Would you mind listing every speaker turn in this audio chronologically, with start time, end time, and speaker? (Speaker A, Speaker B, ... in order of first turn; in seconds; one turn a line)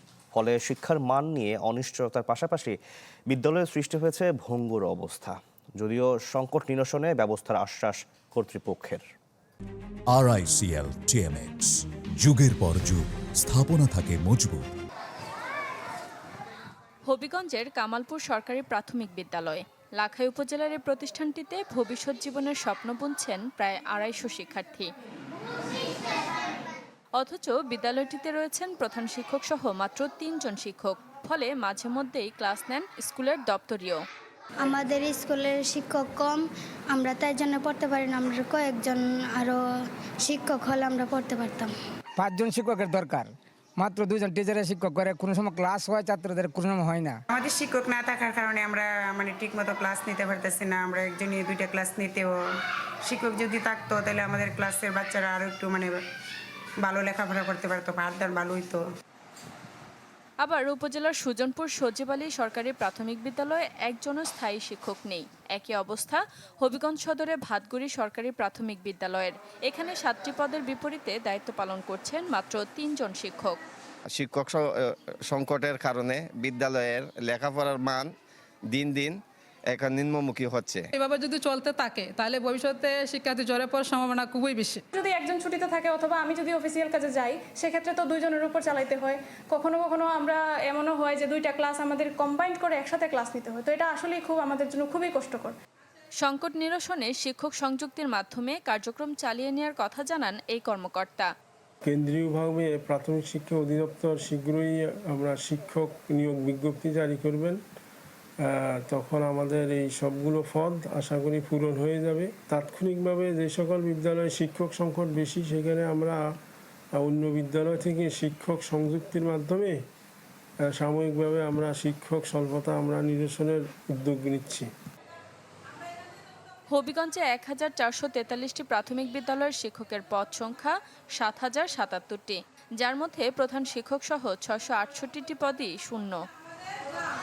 Speaker A: 0.3-2.8
Speaker A: 3.3-9.0
Speaker B: 10.1-14.7
Speaker C: 17.1-24.9
Speaker C: 27.2-34.0
Speaker D: 34.6-39.6
Speaker D: 40.2-41.7
Speaker E: 42.2-47.2
Speaker F: 47.3-52.4
Speaker F: 53.0-56.0
Speaker F: 56.8-58.8
Speaker C: 60.4-73.6
Speaker G: 74.1-74.7
Speaker G: 75.3-78.1
Speaker G: 78.7-79.2
Speaker G: 79.7-80.8
Speaker H: 80.9-84.8
Speaker I: 84.9-95.5
Speaker C: 96.2-101.3
Speaker J: 101.8-107.6
Speaker J: 108.4-116.3
Speaker J: 116.9-119.8
Speaker J: 120.7-124.7
Speaker C: 126.7-136.2